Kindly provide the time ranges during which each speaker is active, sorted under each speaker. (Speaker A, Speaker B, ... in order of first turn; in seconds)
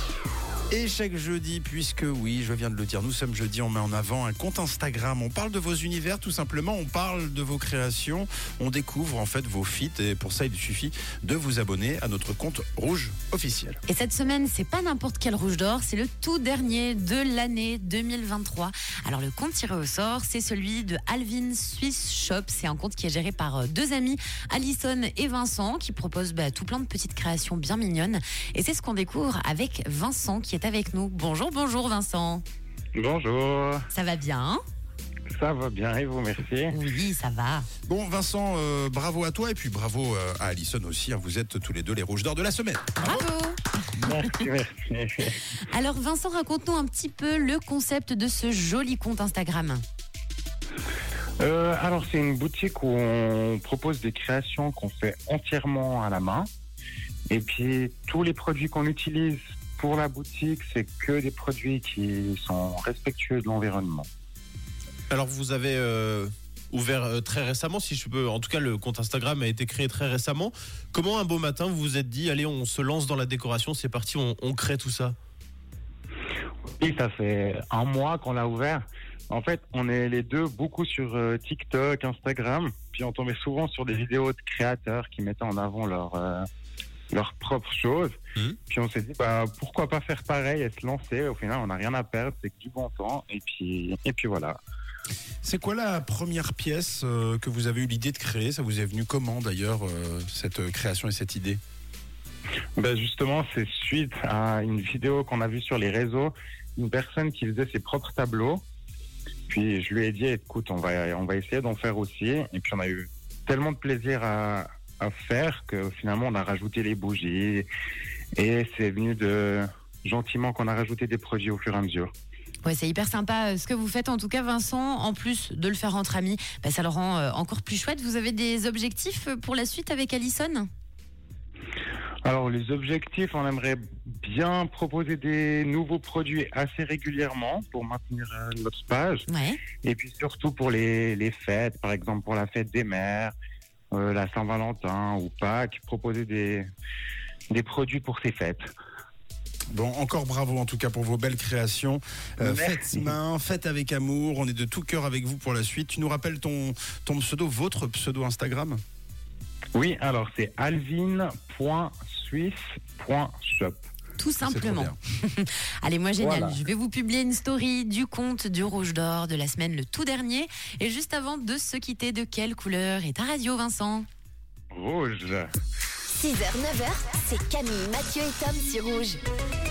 Speaker A: 0.7-13.8, 37.9-43.2, 95.4-101.6, 149.7-158.8, 164.4-164.9
Speaker B: 13.9-32.4, 33.9-34.6, 36.7-37.7, 43.0-44.4, 45.7-49.8, 122.6-130.7, 139.3-139.6, 164.2-174.1, 177.1-177.8, 178.5-179.2
Speaker C: 32.9-33.9, 35.3-36.7, 44.0-45.4, 51.4-56.5, 57.3-64.1, 76.8-86.5, 87.1-94.6, 102.8-108.6, 109.5-117.7, 118.4-122.1, 132.2-139.3, 139.8-143.3, 143.9-146.7, 147.5-148.7, 152.4-153.1, 159.8-163.8, 166.2-166.6, 174.7-175.5
Speaker D: 65.1-75.2
Speaker E: 176.1-179.2